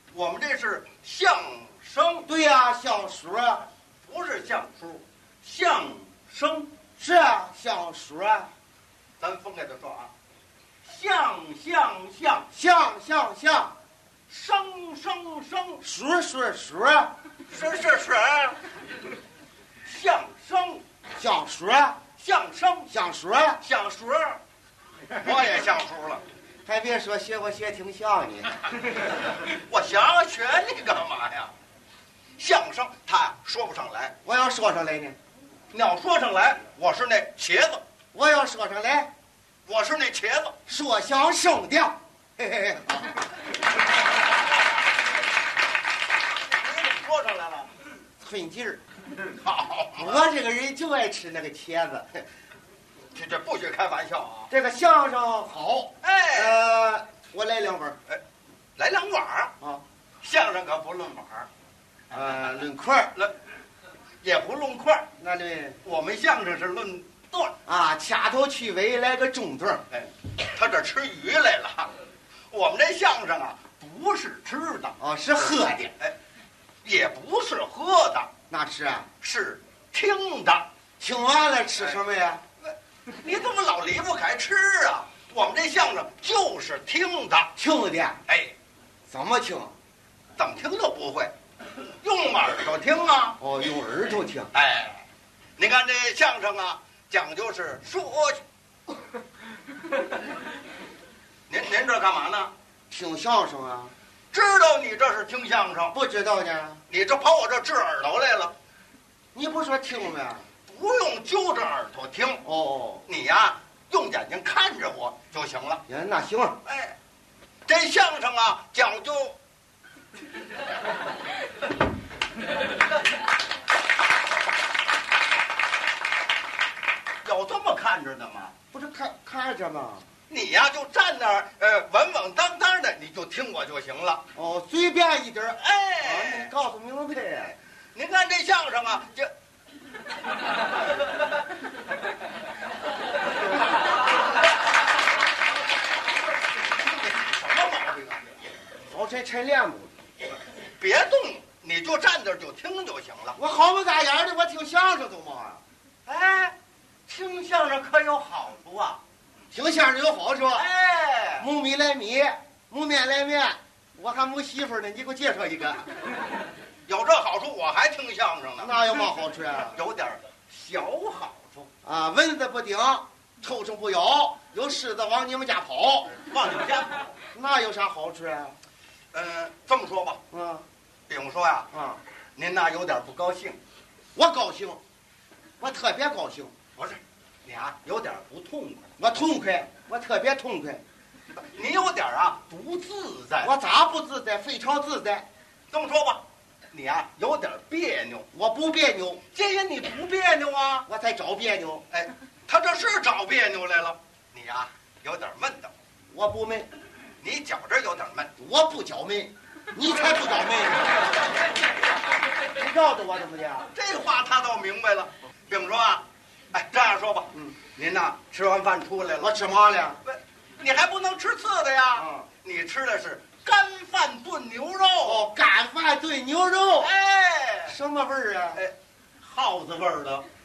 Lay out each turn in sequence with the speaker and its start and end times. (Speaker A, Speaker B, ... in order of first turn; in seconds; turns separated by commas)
Speaker A: 0.1-2.3, Speaker B: 2.3-3.7, Speaker A: 4.0-6.7, Speaker B: 7.0-8.5, Speaker A: 9.2-10.1, Speaker A: 10.8-12.5, Speaker B: 12.5-13.8, Speaker A: 14.3-15.8, Speaker B: 15.8-17.1, Speaker A: 17.5-18.6, Speaker A: 19.9-20.8, Speaker B: 21.2-22.0, Speaker A: 22.2-22.9, Speaker B: 22.9-23.6, Speaker A: 23.6-24.4, Speaker A: 25.2-26.2, Speaker B: 26.7-28.6, Speaker A: 29.5-31.5, Speaker A: 32.4-34.1, Speaker B: 34.2-35.2, Speaker A: 35.7-37.8, Speaker B: 38.1-39.1, Speaker A: 39.7-40.6, Speaker B: 40.7-43.2, Speaker A: 46.5-47.7, Speaker B: 48.2-48.8, Speaker A: 49.3-50.2, Speaker B: 50.0-52.2, Speaker A: 53.1-54.5, Speaker B: 54.5-58.0, Speaker A: 56.0-56.6, Speaker A: 58.8-59.5, Speaker A: 60.2-61.5, Speaker B: 62.1-63.1, Speaker A: 64.2-65.1, Speaker B: 65.2-65.8, Speaker A: 65.8-67.5, Speaker B: 67.7-69.8, Speaker A: 69.9-71.9, Speaker A: 72.5-75.0, Speaker B: 75.0-75.9, Speaker A: 76.8-78.3, Speaker B: 78.5-79.1, Speaker A: 79.2-80.7, Speaker B: 81.0-82.4, Speaker A: 82.7-87.5, Speaker B: 87.6-88.2, Speaker A: 88.3-88.5, Speaker B: 89.1-89.8, Speaker A: 90.4-91.3, Speaker A: 92.0-93.4, Speaker B: 93.4-94.5, Speaker A: 94.5-95.0, Speaker A: 95.6-98.4, Speaker A: 101.5-102.5, Speaker B: 102.9-103.9, Speaker A: 104.3-106.0, Speaker B: 105.9-106.8, Speaker A: 106.9-108.5, Speaker B: 109.3-110.5, Speaker A: 110.7-112.5, Speaker B: 112.5-113.0, Speaker A: 113.1-115.8, Speaker B: 115.9-116.6, Speaker A: 116.7-117.0, Speaker A: 117.7-119.4, Speaker A: 127.2-128.5, Speaker B: 128.7-130.1, Speaker A: 130.3-134.2, Speaker B: 134.3-137.6, Speaker A: 135.6-136.5, Speaker A: 137.9-139.3, Speaker A: 146.7-148.3, Speaker B: 148.9-149.9, Speaker A: 150.8-153.4, Speaker B: 153.4-155.6, Speaker A: 156.1-156.6, Speaker A: 157.1-159.0, Speaker B: 159.5-160.7, Speaker A: 160.6-161.5, Speaker B: 161.4-165.9, Speaker A: 166.9-168.8, Speaker B: 168.6-169.8, Speaker A: 169.7-171.7, Speaker B: 171.8-176.2, Speaker A: 176.1-177.2, Speaker B: 177.3-178.6, Speaker A: 179.1-180.2, Speaker B: 180.3-180.7, Speaker A: 181.1-181.7, Speaker B: 181.7-182.0, Speaker A: 182.4-183.6, Speaker B: 184.2-184.8, Speaker B: 185.6-186.5, Speaker A: 186.8-188.9, Speaker B: 189.0-190.8, Speaker A: 191.4-193.5, Speaker B: 193.4-195.2, Speaker A: 195.7-198.3, Speaker B: 198.3-199.2, Speaker A: 199.3-200.9, Speaker B: 200.9-201.9, Speaker A: 201.9-205.7, Speaker B: 206.1-206.7, Speaker A: 207.2-208.3, Speaker B: 208.4-211.1, Speaker B: 212.5-213.7, Speaker A: 213.7-219.3, Speaker B: 219.2-220.0, Speaker A: 220.0-225.3, Speaker B: 222.0-222.3, Speaker B: 225.0-226.9, Speaker A: 226.8-227.8, Speaker B: 227.7-228.6, Speaker A: 228.6-230.2